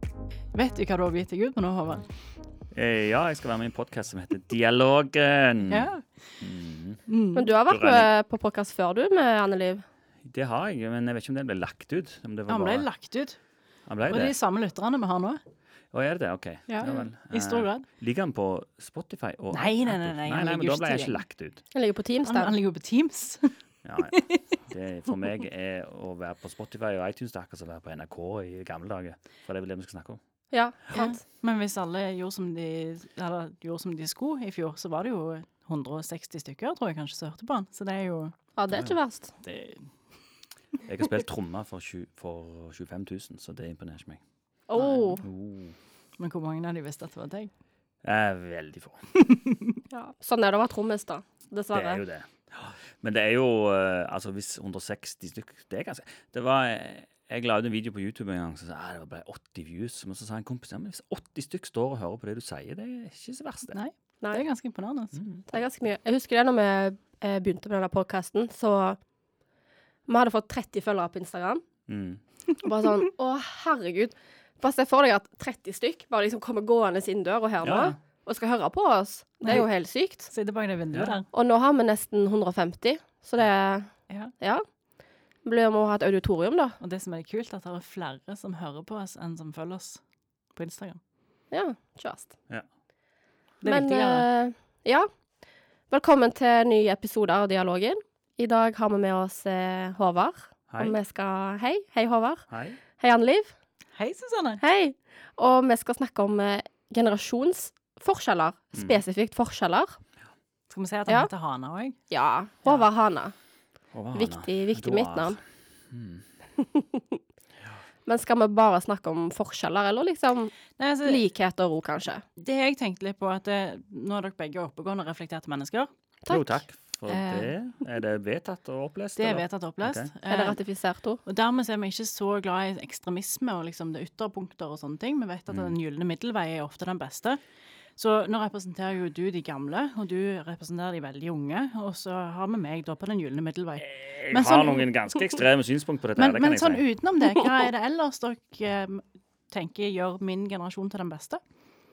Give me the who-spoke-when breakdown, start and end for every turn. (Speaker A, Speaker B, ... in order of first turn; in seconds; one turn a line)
Speaker A: 0.5-2.1
Speaker B: 2.7-5.9
Speaker A: 5.7-6.0
Speaker B: 6.4-7.0
Speaker A: 7.1-7.5
Speaker C: 7.3-9.8
Speaker B: 7.7-8.1
Speaker B: 10.2-12.9
Speaker A: 12.5-13.4
Speaker B: 13.9-14.3
Speaker A: 14.1-15.4
Speaker B: 15.9-21.6
Speaker A: 16.7-17.9
Speaker A: 19.5-21.2
Speaker C: 21.7-22.6
Speaker A: 22.2-24.4
Speaker B: 23.8-30.2
Speaker C: 30.5-31.2
Speaker A: 30.9-38.3
Speaker C: 38.5-39.3
Speaker A: 39.4-39.9
Speaker B: 40.9-44.2
Speaker C: 44.7-45.2
Speaker A: 44.8-45.0
Speaker B: 45.2-45.8
Speaker A: 46.2-47.5
Speaker B: 48.0-49.0
Speaker A: 49.2-49.7
Speaker C: 49.9-52.0
Speaker B: 51.7-63.8
Speaker A: 63.7-65.2
Speaker B: 65.2-65.4
Speaker C: 65.5-69.0
Speaker C: 70.1-71.6
Speaker B: 71.9-72.2
Speaker C: 72.6-80.3
Speaker B: 77.6-78.0
Speaker A: 80.3-81.3
Speaker B: 80.9-81.2
Speaker C: 81.3-84.6
Speaker C: 85.4-86.8
Speaker A: 86.8-90.0
Speaker A: 90.5-91.0
Speaker C: 91.5-92.3
Speaker A: 93.6-94.2
Speaker C: 93.6-95.1
Speaker C: 95.9-102.5
Speaker B: 100.7-101.0
Speaker B: 102.5-102.8
Speaker C: 103.0-103.5
Speaker A: 104.0-104.6
Speaker C: 104.6-110.0
Speaker B: 108.8-109.0
Speaker A: 110.7-112.0
Speaker C: 112.1-113.3
Speaker B: 113.9-116.2
Speaker C: 114.1-115.4
Speaker C: 116.6-117.2
Speaker C: 118.0-122.2
Speaker A: 120.8-121.2
Speaker A: 122.4-125.9
Speaker C: 126.3-126.6
Speaker B: 126.3-130.1
Speaker A: 127.1-127.5
Speaker A: 129.2-130.6
Speaker C: 130.3-131.2
Speaker A: 131.2-137.4
Speaker B: 135.5-135.8
Speaker A: 138.0-144.9
Speaker B: 143.8-146.8
Speaker A: 146.2-151.4